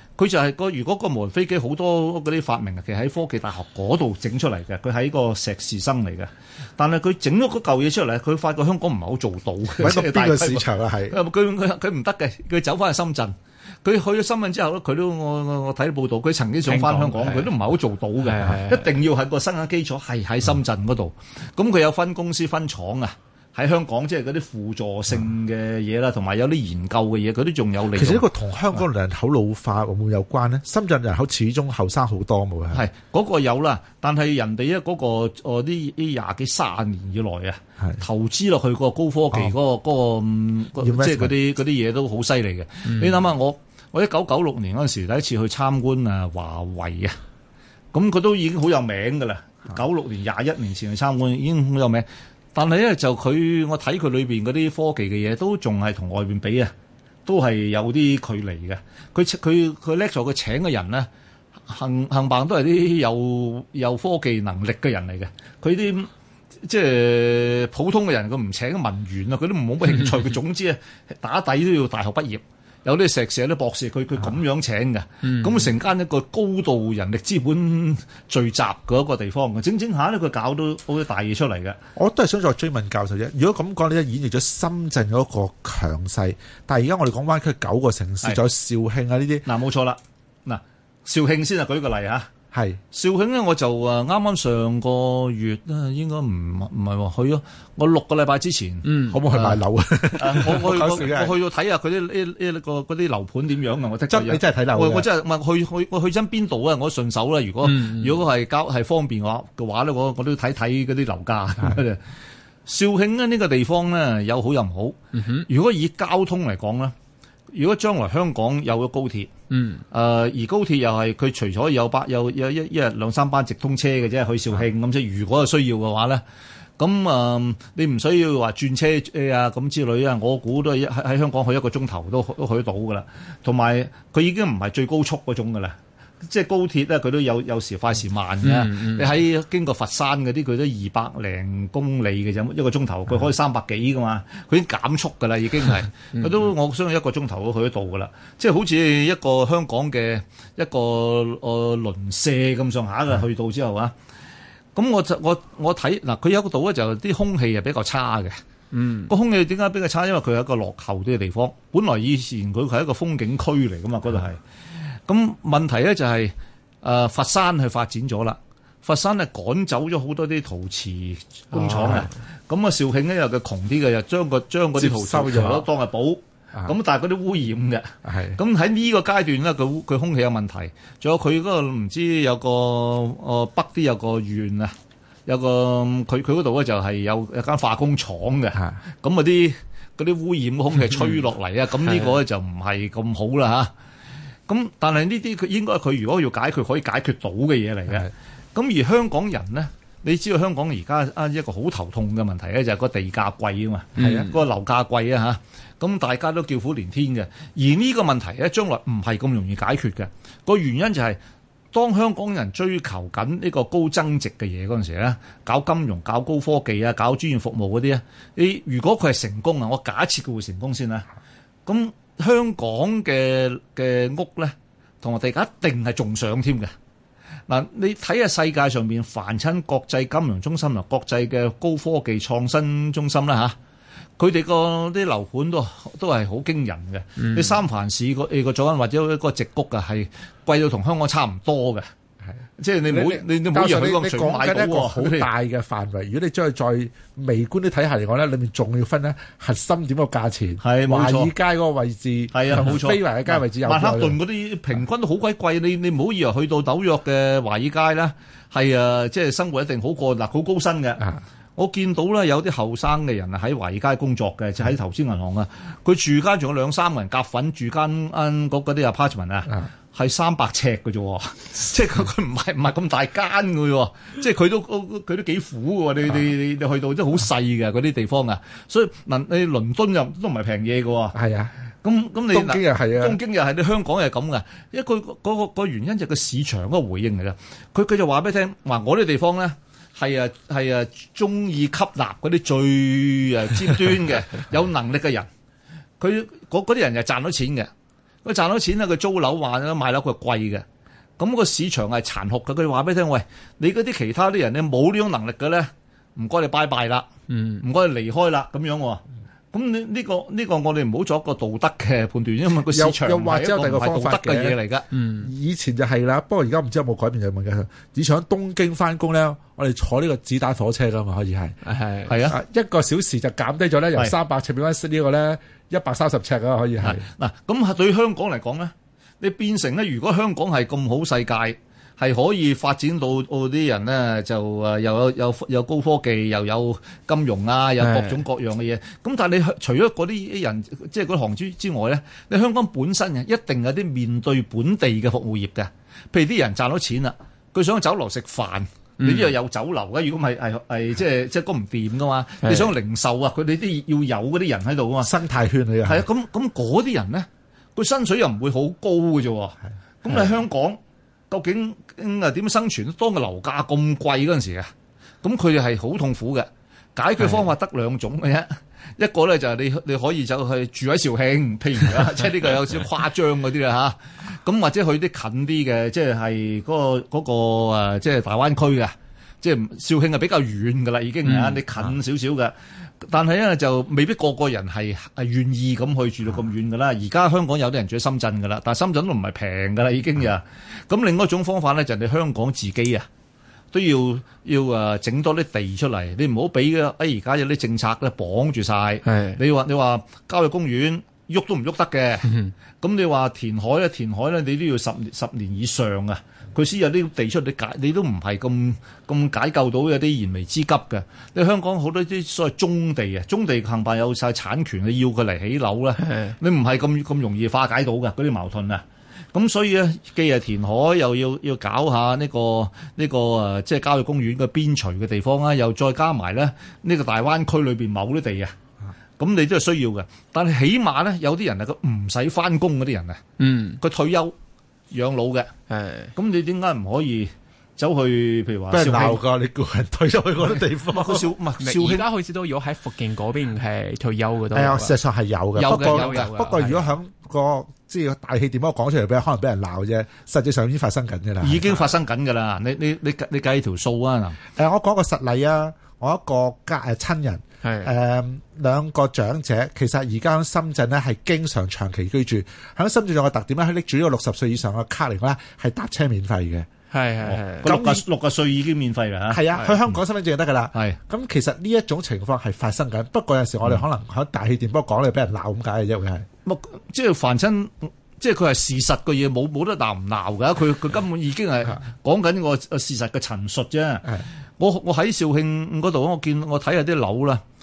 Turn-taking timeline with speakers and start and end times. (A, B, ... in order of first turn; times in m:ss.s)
0:00.2-0:28.2 A
0:09.8-0:11.2 B
0:16.6-0:17.5 C
0:18.2-0:18.9 C
0:27.9-0:32.8 B
0:32.7-0:47.2 A
0:40.8-0:41.3 B
0:47.9-0:56.7 A
0:57.2-1:01.1 A
1:01.7-1:06.1 A
1:06.6-1:21.8 A
1:15.3-1:15.6 C
1:22.0-1:29.4 B
1:29.4-1:32.3 A
1:32.5-1:32.8 B
1:32.9-1:39.6 A
1:38.8-1:39.2 C
1:39.1-1:41.3 B
1:40.1-1:52.0 A
1:44.1-1:45.1 B
1:47.6-1:48.2 C
1:52.6-1:56.9 A
1:55.1-1:55.5 C
1:57.5-1:59.3 A
1:59.5-1:59.8 C
1:59.9-2:06.2 A
2:06.8-2:33.9 A
2:18.4-2:19.0 C
2:34.7-2:38.4 A
2:38.7-2:39.1 C
2:39.1-2:44.4 A
2:45.1-3:04.7 A
2:51.5-2:52.1 C
2:54.8-2:55.7 B
2:58.0-2:58.4 B
3:05.2-3:13.7 A
3:14.5-3:31.2 A
3:24.0-3:24.3 C
3:24.0-3:24.3 B
3:31.7-3:41.1 A
3:41.6-3:46.7 A
3:47.5-3:53.6 A
3:54.2-4:01.9 A
3:57.2-3:57.5 C
4:02.6-4:05.3 A
4:02.9-4:14.2 B
4:10.6-4:11.3 A
4:12.3-4:41.2 A
4:41.1-4:41.5 B
4:41.8-4:55.3 A
4:42.3-4:43.2 B
4:56.0-4:57.7 A
4:58.2-5:00.6 A
5:01.2-5:07.1 A
5:07.3-5:07.6 C
5:07.6-5:14.8 A
5:12.7-5:14.6 B
5:14.9-5:15.3 C
5:15.2-5:21.6 B
5:21.6-5:22.1 C
5:22.1-5:22.4 A
5:22.2-5:27.0 B
5:26.8-5:55.1 A
5:37.8-5:38.2 C
5:49.0-5:49.3 C
5:52.4-5:52.7 C
5:55.0-5:56.0 B
5:55.8-6:00.8 A
6:01.3-6:04.7 A
6:05.2-6:33.1 A
6:21.2-6:21.6 C
6:33.7-7:08.5 A
6:39.0-6:39.4 C
6:56.0-6:56.3 C
7:09.2-7:13.2 A
7:13.4-7:13.8 C
7:13.8-7:14.4 A
7:14.9-7:15.5 A
7:15.7-7:16.1 C
7:16.1-7:19.2 A
7:18.7-7:21.3 B
7:20.9-7:22.0 A
7:21.6-7:25.0 C
7:24.5-7:31.7 B
7:25.6-7:26.3 A
7:25.6-7:26.8 C
7:31.4-7:34.4 A
7:34.6-7:46.7 B
7:37.6-7:37.9 C
7:46.9-7:47.7 C
7:47.2-7:50.0 A
7:47.6-7:48.0 B
7:49.3-7:56.2 B
7:56.4-8:07.4 A